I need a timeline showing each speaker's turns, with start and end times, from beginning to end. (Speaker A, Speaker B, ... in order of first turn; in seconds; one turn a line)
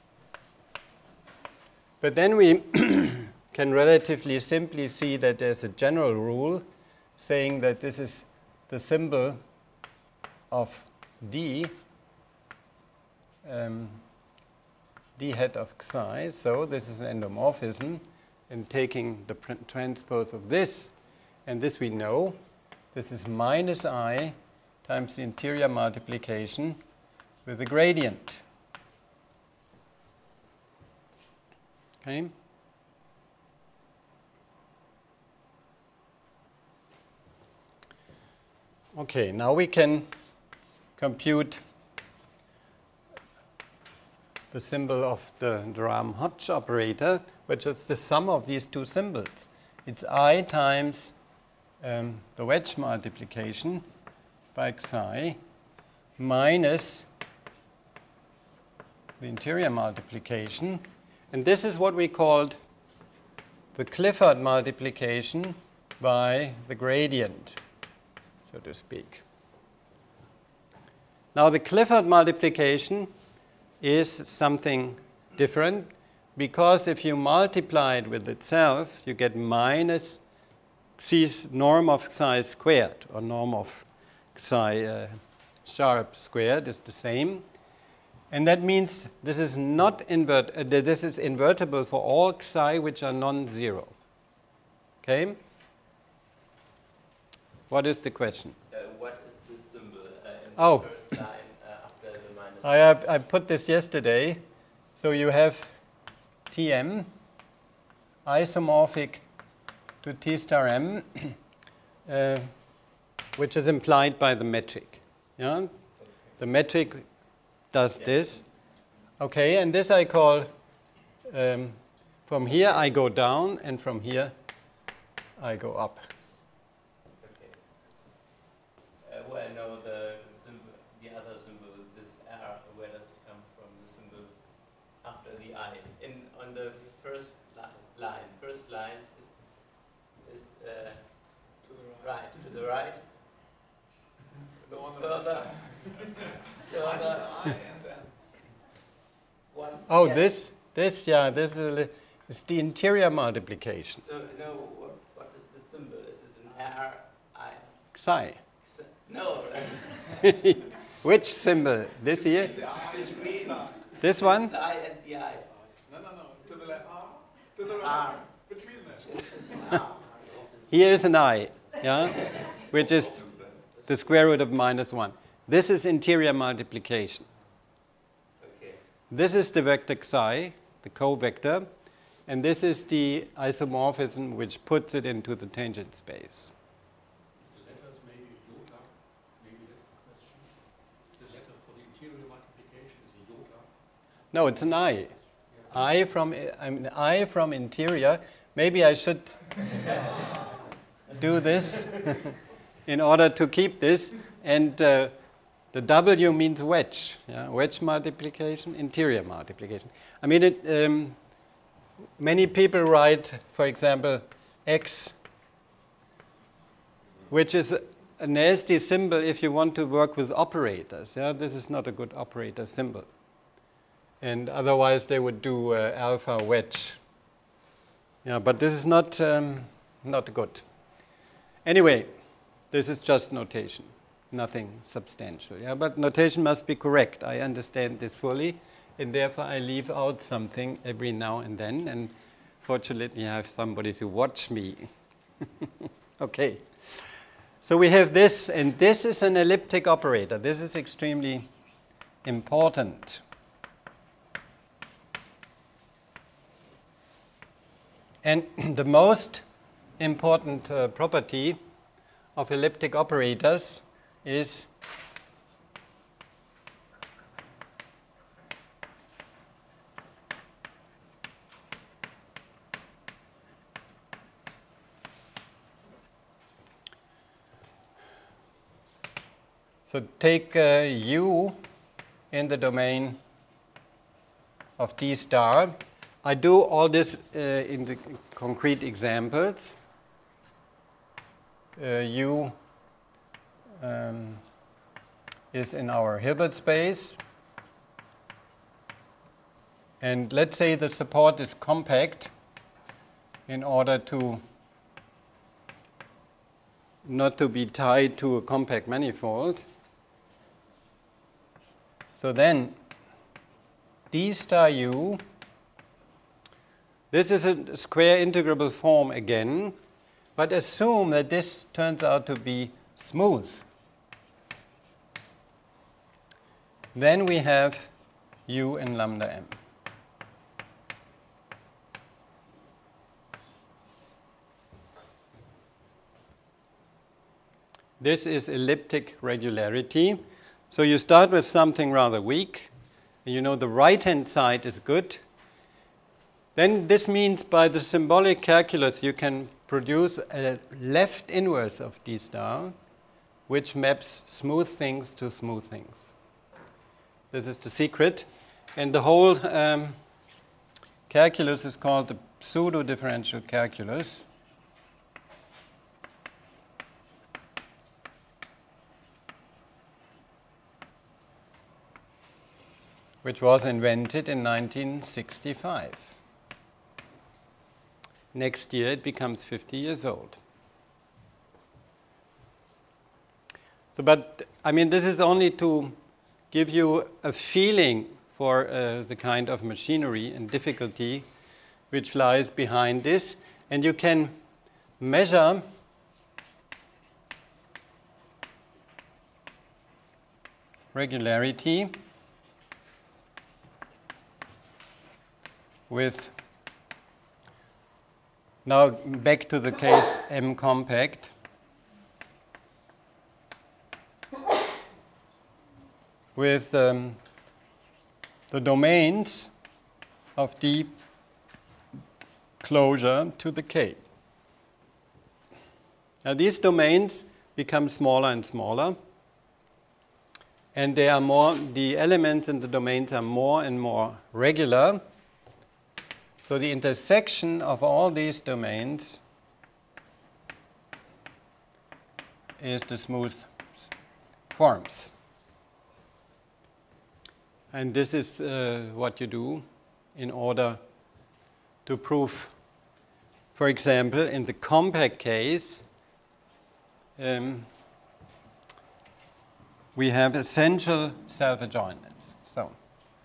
Speaker A: 2.0-6.6
Speaker A: 7.2-9.4
Speaker A: 10.5-11.8
Speaker A: 13.4-14.0
Speaker A: 15.2-20.9
Speaker A: 21.4-22.4
Speaker A: 22.9-26.8
Speaker A: 27.4-28.4
Speaker A: 32.0-32.3
Speaker A: 38.9-40.1
Speaker A: 41.0-41.6
Speaker A: 44.5-51.1
Speaker A: 51.8-53.8
Speaker A: 54.5-55.4
Speaker A: 56.2-57.0
Speaker A: 59.2-62.6
Speaker A: 63.7-67.6
Speaker A: 68.5-69.2
Speaker A: 71.3-73.1
Speaker A: 73.8-80.2
Speaker A: 81.0-87.4
Speaker A: 88.3-93.9
Speaker A: 95.0-95.4
Speaker A: 97.7-98.5
Speaker B: 98.7-103.0
Speaker A: 100.6-100.9
Speaker A: 102.6-104.4
Speaker A: 105.0-105.7
Speaker A: 106.5-107.1
Speaker A: 108.2-109.2
Speaker A: 110.0-111.4
Speaker A: 112.0-112.5
Speaker A: 113.3-115.7
Speaker A: 116.4-117.0
Speaker A: 117.7-118.4
Speaker A: 119.2-120.5
Speaker A: 121.3-124.3
Speaker A: 125.4-126.0
Speaker B: 127.2-127.6
Speaker B: 129.0-143.1
Speaker B: 144.6-147.8
Speaker B: 149.5-150.3
Speaker A: 149.9-154.0
Speaker B: 154.0-157.8
Speaker A: 157.9-158.4
Speaker B: 158.6-160.2
Speaker A: 160.1-162.7
Speaker B: 162.6-165.5
Speaker A: 164.0-164.5
Speaker B: 167.6-168.3
Speaker B: 169.2-170.5
Speaker A: 170.7-173.2
Speaker B: 172.2-173.9
Speaker A: 173.8-177.2
Speaker B: 178.4-178.8
Speaker A: 179.1-181.7
Speaker A: 182.3-186.5
Speaker C: 187.4-190.6
Speaker C: 191.1-193.7
Speaker A: 194.3-195.1
Speaker A: 195.7-199.7
Speaker A: 201.1-205.1
Speaker A: 205.7-211.2
Speaker A: 212.2-215.2
Speaker A: 217.3-223.1
Speaker A: 224.2-227.0
Speaker A: 228.2-230.6
Speaker A: 231.6-232.1
Speaker A: 232.7-242.1
Speaker A: 242.6-244.9
Speaker A: 245.4-247.1
Speaker A: 247.6-251.5
Speaker A: 252.2-253.2
Speaker A: 258.2-259.4
Speaker A: 260.0-261.6
Speaker A: 262.4-264.7
Speaker A: 279.9-281.6
Speaker A: 282.3-283.2
Speaker A: 284.8-289.8
Speaker A: 291.8-292.5
Speaker A: 293.8-294.4
Speaker A: 295.5-297.2
Speaker A: 300.0-302.3
Speaker A: 303.5-304.4
Speaker A: 307.0-309.6
Speaker A: 312.1-312.8
Speaker A: 314.1-315.2
Speaker A: 317.1-319.7
Speaker A: 320.4-323.6
Speaker A: 326.9-327.9
Speaker A: 328.5-329.6
Speaker A: 338.0-342.7
Speaker A: 343.2-345.2
Speaker A: 346.5-352.7
Speaker A: 353.5-356.1
Speaker A: 357.3-359.9
Speaker A: 361.1-364.2
Speaker A: 373.2-376.2
Speaker A: 378.3-380.4
Speaker A: 383.9-385.9
Speaker A: 386.5-391.2
Speaker A: 391.9-394.3
Speaker A: 395.0-395.6
Speaker A: 400.9-401.9
Speaker A: 405.9-406.3
Speaker A: 408.6-411.3
Speaker A: 416.3-417.2
Speaker A: 418.5-419.5
Speaker A: 420.3-420.9
Speaker A: 422.6-424.0
Speaker A: 426.2-429.0
Speaker A: 430.7-435.0
Speaker A: 436.4-439.2
Speaker A: 442.6-443.9
Speaker A: 444.5-445.1
Speaker A: 447.7-450.8
Speaker A: 451.9-452.5
Speaker A: 453.5-455.8
Speaker A: 457.2-457.7
Speaker A: 459.9-462.7